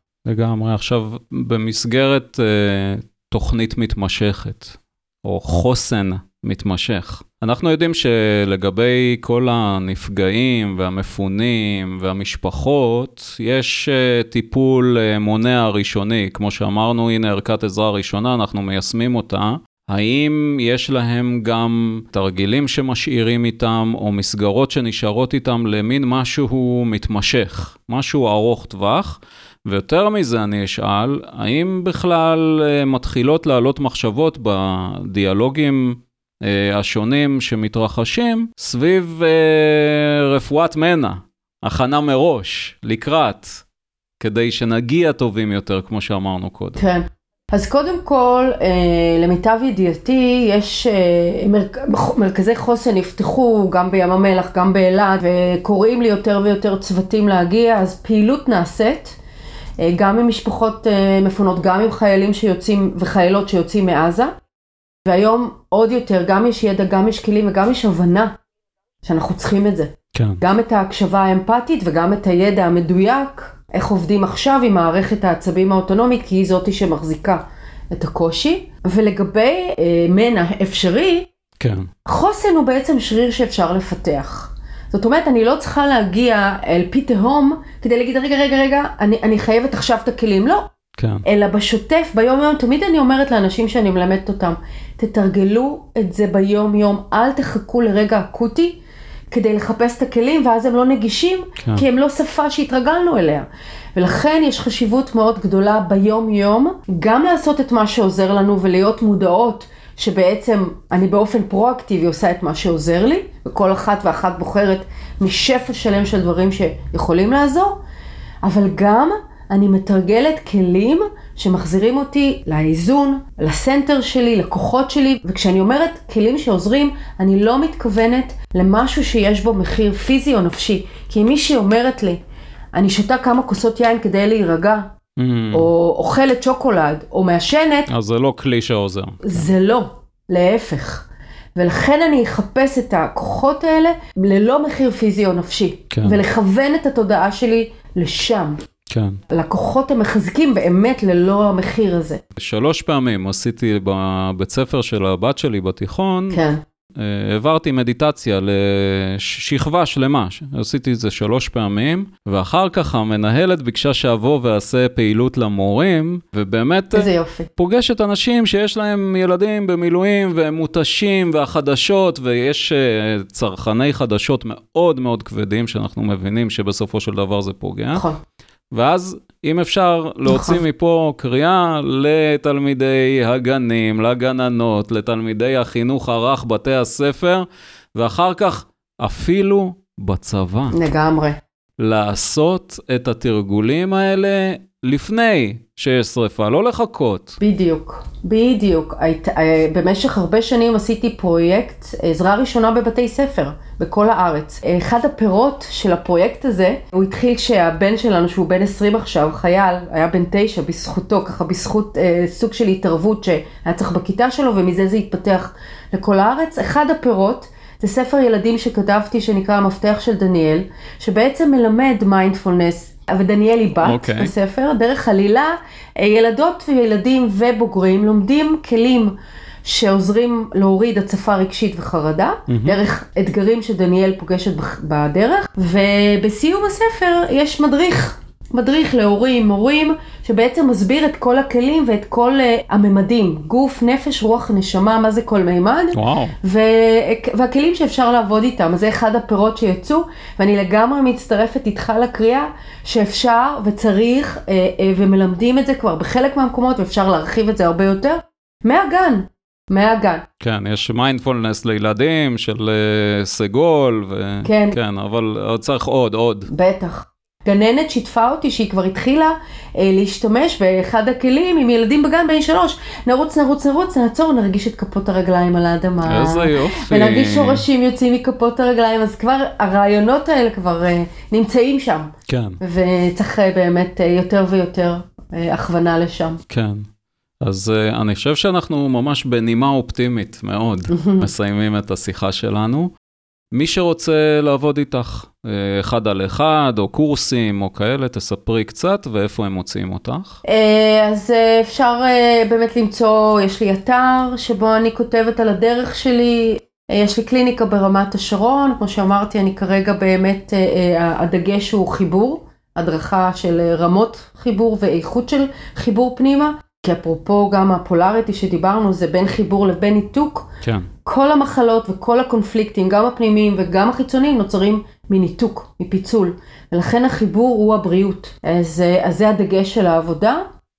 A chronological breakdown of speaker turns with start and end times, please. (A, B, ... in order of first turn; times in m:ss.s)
0:00.2-0:43.6 A
0:44.2-0:46.8 A
0:46.8-0:59.2 B
0:59.8-1:04.3 B
1:05.1-1:08.3 B
1:09.0-1:21.3 B
1:10.1-1:10.4 A
1:21.6-1:21.9 A
1:22.1-1:30.7 B
1:31.0-1:31.2 A
1:31.2-1:38.8 B
1:39.3-1:57.8 B
1:41.6-1:41.8 A
1:58.4-2:12.2 B
2:12.7-2:14.9 B
2:15.2-2:15.7 A
2:15.5-2:17.9 B
2:17.9-2:19.5 A
2:19.2-2:28.6 B
2:25.9-2:26.2 A
2:28.9-2:29.2 A
2:29.3-2:32.2 B
2:32.4-2:36.4 A
2:36.3-2:36.6 B
2:37.0-2:58.1 A
2:46.9-2:47.5 B
2:57.9-2:58.2 B
2:58.7-3:10.8 A
3:00.3-3:00.6 B
3:10.7-3:11.4 B
3:11.8-3:17.4 A
3:17.4-4:20.3 B
3:43.8-3:44.3 A
3:52.5-3:52.8 A
4:05.9-4:06.4 A
4:20.4-4:26.5 A
4:24.4-4:24.8 B
4:26.5-4:46.4 B
4:36.0-4:37.6 A
4:42.3-4:42.6 A
4:46.5-4:46.9 A
4:47.4-4:52.9 A
4:50.9-4:51.3 B
4:53.5-5:00.4 A
5:00.4-5:20.5 B
5:20.6-5:20.9 A
5:21.0-5:30.4 B